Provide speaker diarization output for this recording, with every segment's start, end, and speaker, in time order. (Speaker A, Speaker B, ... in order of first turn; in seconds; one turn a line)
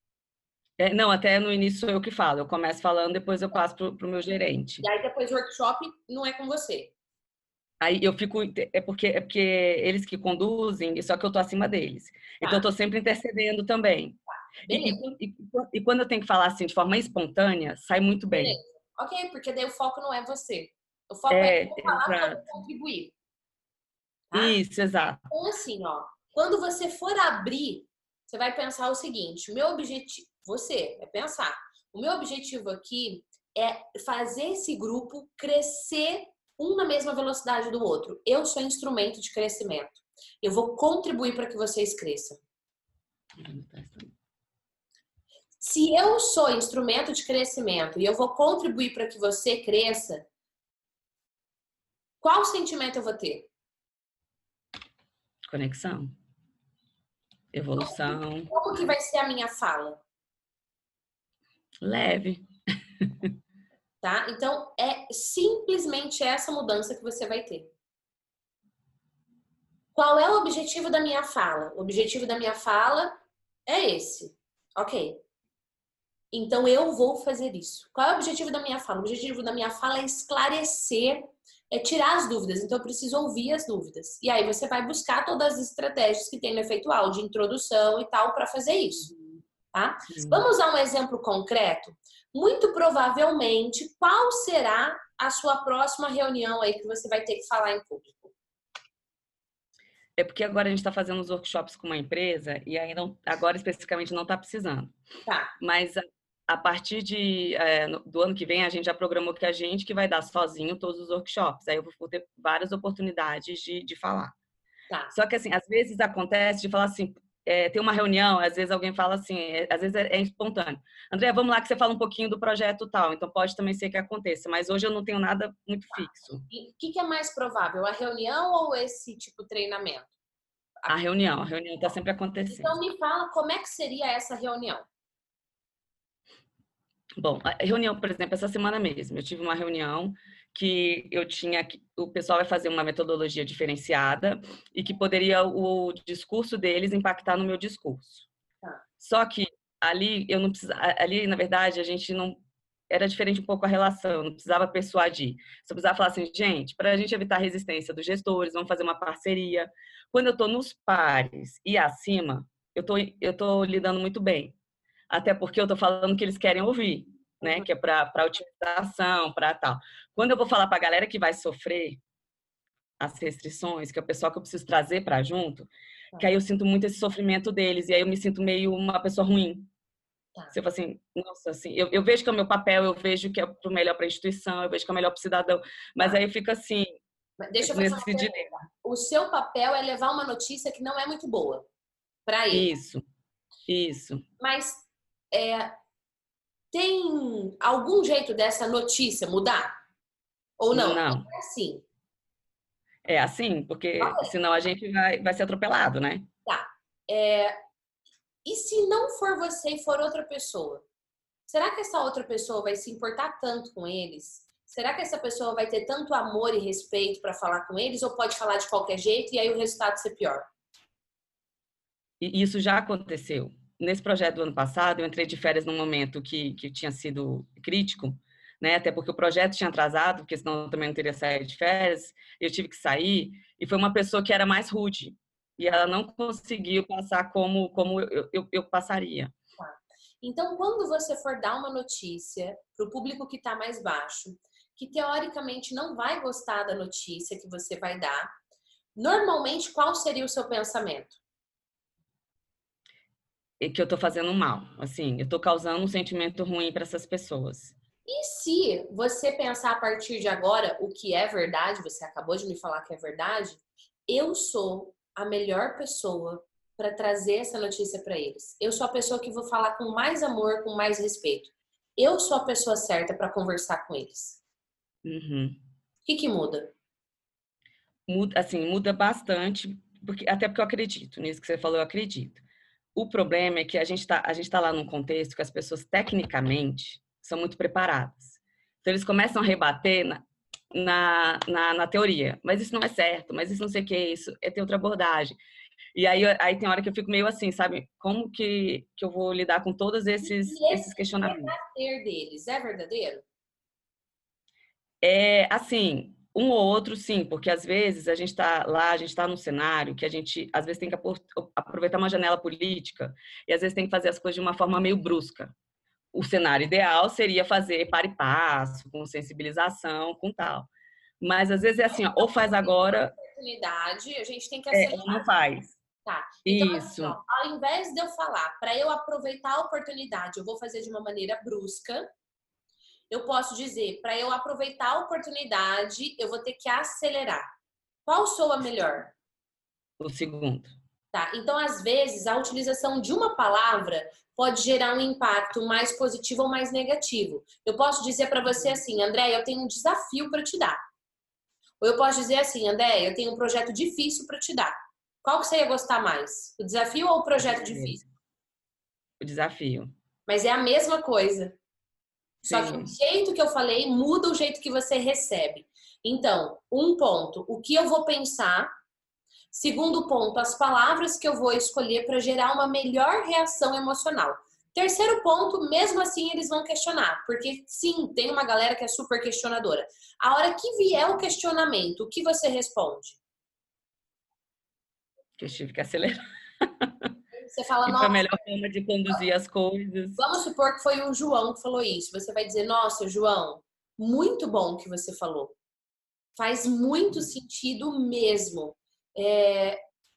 Speaker A: 0.8-4.9
Speaker B: 4.8-6.9
Speaker A: 7.8-18.6
Speaker B: 12.4-12.7
Speaker B: 14.7-15.0
Speaker B: 18.3-23.1
Speaker A: 21.3-22.6
Speaker B: 24.3-24.6
Speaker A: 24.3-25.2
Speaker B: 25.3-42.4
Speaker A: 43.4-44.1
Speaker B: 45.6-50.3
Speaker B: 52.2-53.5
Speaker A: 55.5-56.1
Speaker A: 57.5-58.5
Speaker B: 57.8-60.0
Speaker A: 61.8-62.5
Speaker A: 63.0-63.3
Speaker B: 64.0-67.7
Speaker B: 69.9-73.2
Speaker B: 73.7-75.2
Speaker B: 76.3-89.1
Speaker A: 89.0-89.4
Speaker B: 89.7-98.3
Speaker A: 90.1-90.5
Speaker A: 100.2-104.9
Speaker B: 105.3-105.5
Speaker A: 105.6-114.3
Speaker A: 115.1-126.4
Speaker B: 126.5-130.1
Speaker A: 130.9-132.8
Speaker B: 132.5-134.9
Speaker A: 137.2-148.3
Speaker A: 149.0-164.6
Speaker A: 165.1-172.0
Speaker A: 173.0-179.7
Speaker A: 180.5-187.0
Speaker B: 187.4-191.7
Speaker A: 187.6-188.6
Speaker B: 192.3-192.7
Speaker A: 192.5-193.1
Speaker A: 193.7-194.2
Speaker B: 194.4-195.7
Speaker B: 196.7-199.7
Speaker B: 200.6-201.8
Speaker A: 200.7-201.3
Speaker A: 203.1-206.3
Speaker B: 204.0-204.3
Speaker B: 206.4-207.5
Speaker B: 208.4-210.8
Speaker B: 211.5-220.5
Speaker A: 222.2-239.3
Speaker B: 239.6-248.3
Speaker B: 248.9-251.2
Speaker A: 253.6-257.7
Speaker B: 258.1-274.4
Speaker A: 275.1-275.6
Speaker B: 276.1-276.7
Speaker A: 278.1-282.4
Speaker A: 282.9-295.4
Speaker A: 295.9-301.5
Speaker B: 300.2-303.2
Speaker A: 305.0-315.5
Speaker A: 316.1-320.7
Speaker A: 321.2-323.1
Speaker B: 322.0-325.3
Speaker A: 324.7-325.8
Speaker B: 326.1-332.1
Speaker A: 326.4-327.2
Speaker B: 333.1-337.5
Speaker B: 338.1-339.1
Speaker A: 340.0-340.7
Speaker B: 341.1-350.8
Speaker B: 351.8-358.1
Speaker A: 357.4-358.0
Speaker A: 359.2-359.9
Speaker B: 360.3-361.6
Speaker B: 362.4-368.7
Speaker A: 362.5-362.9
Speaker B: 369.5-383.2
Speaker A: 385.4-387.1
Speaker B: 387.3-388.3
Speaker A: 387.9-390.2
Speaker B: 390.2-395.6
Speaker B: 396.4-399.8